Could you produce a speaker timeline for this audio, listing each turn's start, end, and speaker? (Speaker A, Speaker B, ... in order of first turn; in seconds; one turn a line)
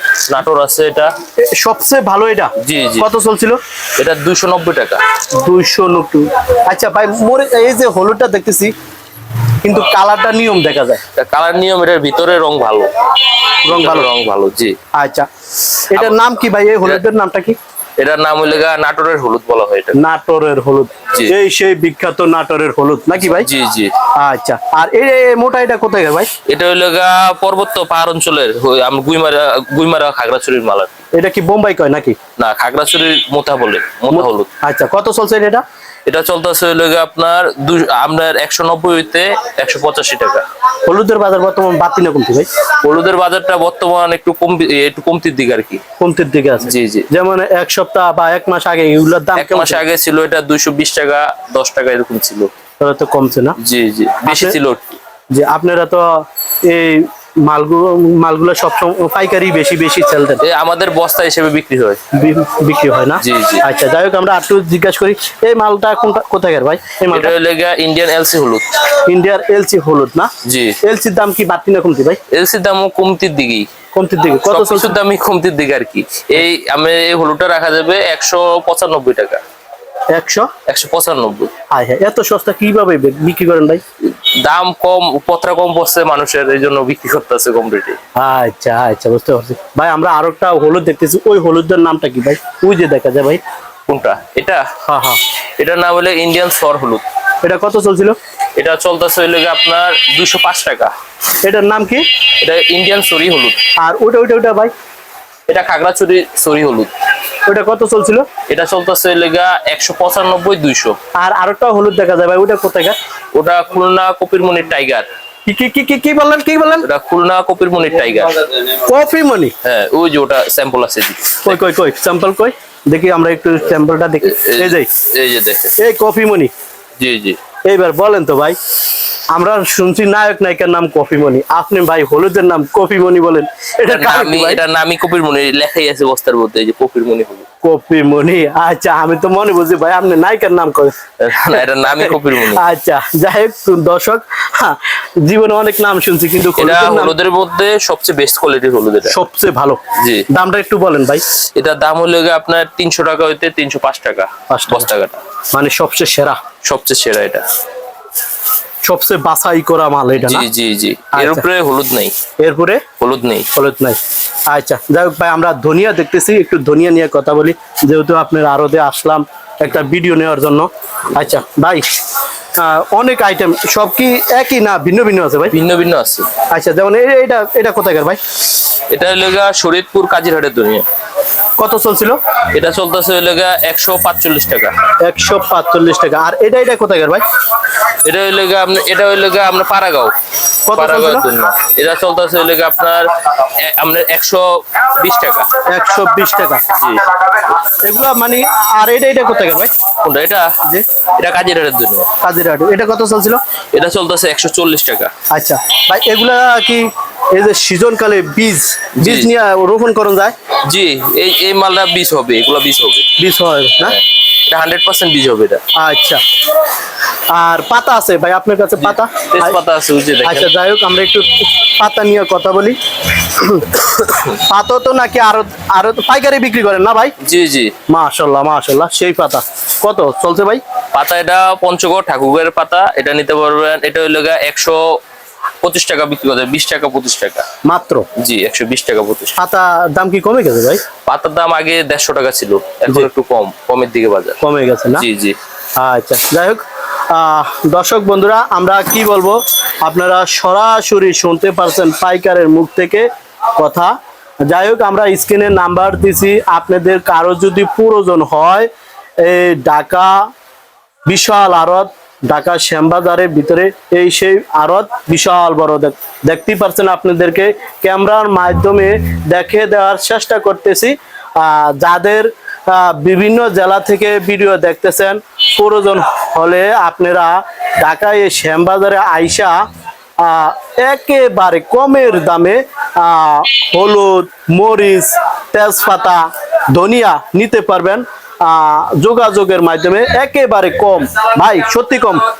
Speaker A: 0.2-1.1
Speaker B: 1.4-3.6
Speaker A: 2.6-3.1
Speaker A: 4.0-5.0
Speaker B: 5.4-8.7
Speaker B: 9.6-11.0
Speaker A: 11.1-14.8
Speaker B: 13.7-14.1
Speaker B: 14.9-15.3
Speaker B: 15.9-17.6
Speaker A: 15.9-16.3
Speaker A: 18.0-20.0
Speaker B: 19.9-23.5
Speaker A: 23.4-23.9
Speaker B: 24.2-26.3
Speaker A: 26.5-31.0
Speaker B: 31.1-32.2
Speaker A: 32.4-34.5
Speaker B: 34.1-35.6
Speaker A: 36.0-40.4
Speaker B: 40.9-42.5
Speaker A: 42.8-45.8
Speaker B: 46.0-49.8
Speaker A: 46.6-47.1
Speaker A: 49.4-52.5
Speaker B: 52.8-53.6
Speaker A: 53.6-55.0
Speaker B: 54.2-54.5
Speaker B: 55.3-60.4
Speaker A: 60.4-62.0
Speaker B: 62.1-67.3
Speaker A: 63.2-63.6
Speaker A: 67.1-68.7
Speaker B: 69.0-70.3
Speaker A: 70.4-70.8
Speaker B: 70.8-72.2
Speaker A: 72.3-73.7
Speaker B: 73.9-75.0
Speaker A: 74.5-79.4
Speaker B: 80.1-80.5
Speaker A: 80.7-81.5
Speaker B: 81.7-83.8
Speaker A: 84.2-88.0
Speaker B: 88.2-93.4
Speaker A: 93.9-94.7
Speaker B: 94.9-95.2
Speaker A: 95.6-97.0
Speaker B: 97.4-98.2
Speaker A: 98.5-100.9
Speaker B: 101.4-102.0
Speaker A: 102.4-103.6
Speaker B: 103.8-104.7
Speaker A: 105.5-106.9
Speaker B: 107.5-108.3
Speaker A: 108.5-111.0
Speaker B: 111.2-113.0
Speaker A: 113.3-115.1
Speaker B: 115.5-116.9
Speaker A: 116.8-118.8
Speaker B: 118.8-119.5
Speaker A: 119.6-121.6
Speaker B: 121.4-124.9
Speaker A: 124.2-125.7
Speaker B: 125.8-126.5
Speaker A: 127.0-127.4
Speaker B: 127.7-128.6
Speaker B: 129.3-134.6
Speaker A: 133.8-137.5
Speaker B: 137.6-140.9
Speaker A: 141.2-142.6
Speaker B: 141.5-147.1
Speaker A: 146.6-149.2
Speaker B: 149.1-151.2
Speaker A: 150.0-150.3
Speaker A: 151.6-155.2
Speaker B: 154.5-154.9
Speaker B: 155.5-156.4
Speaker A: 156.6-157.4
Speaker B: 158.8-160.5
Speaker A: 160.2-162.1
Speaker B: 161.2-161.4
Speaker B: 162.4-162.8
Speaker A: 163.0-163.5
Speaker B: 163.5-164.0
Speaker B: 164.5-171.8
Speaker B: 172.6-175.5
Speaker A: 175.5-176.3
Speaker B: 176.5-178.2
Speaker A: 178.9-180.8
Speaker B: 181.6-182.2
Speaker A: 182.5-184.7
Speaker B: 185.0-187.2
Speaker A: 188.0-190.1
Speaker B: 190.7-191.2
Speaker A: 190.7-195.5
Speaker B: 195.7-196.7
Speaker A: 196.8-197.1
Speaker B: 197.3-199.7
Speaker A: 200.0-200.5
Speaker A: 201.2-202.1
Speaker B: 202.2-203.4
Speaker A: 203.7-205.1
Speaker B: 205.3-210.3
Speaker A: 209.0-209.3
Speaker A: 210.7-213.1
Speaker B: 213.2-214.0
Speaker A: 213.8-215.6
Speaker B: 215.8-216.2
Speaker B: 217.3-219.6
Speaker A: 218.8-220.5
Speaker B: 220.2-222.8
Speaker B: 223.4-227.1
Speaker A: 227.2-227.7
Speaker B: 227.9-230.6
Speaker A: 230.9-234.9
Speaker A: 235.6-237.4
Speaker B: 237.7-238.1
Speaker A: 238.2-239.3
Speaker B: 239.4-240.8
Speaker A: 241.1-244.4
Speaker B: 244.4-245.0
Speaker A: 244.9-245.3
Speaker B: 245.8-253.1
Speaker B: 253.6-253.9
Speaker B: 254.5-258.7
Speaker B: 259.2-260.3
Speaker B: 261.1-279.6
Speaker B: 280.2-292.3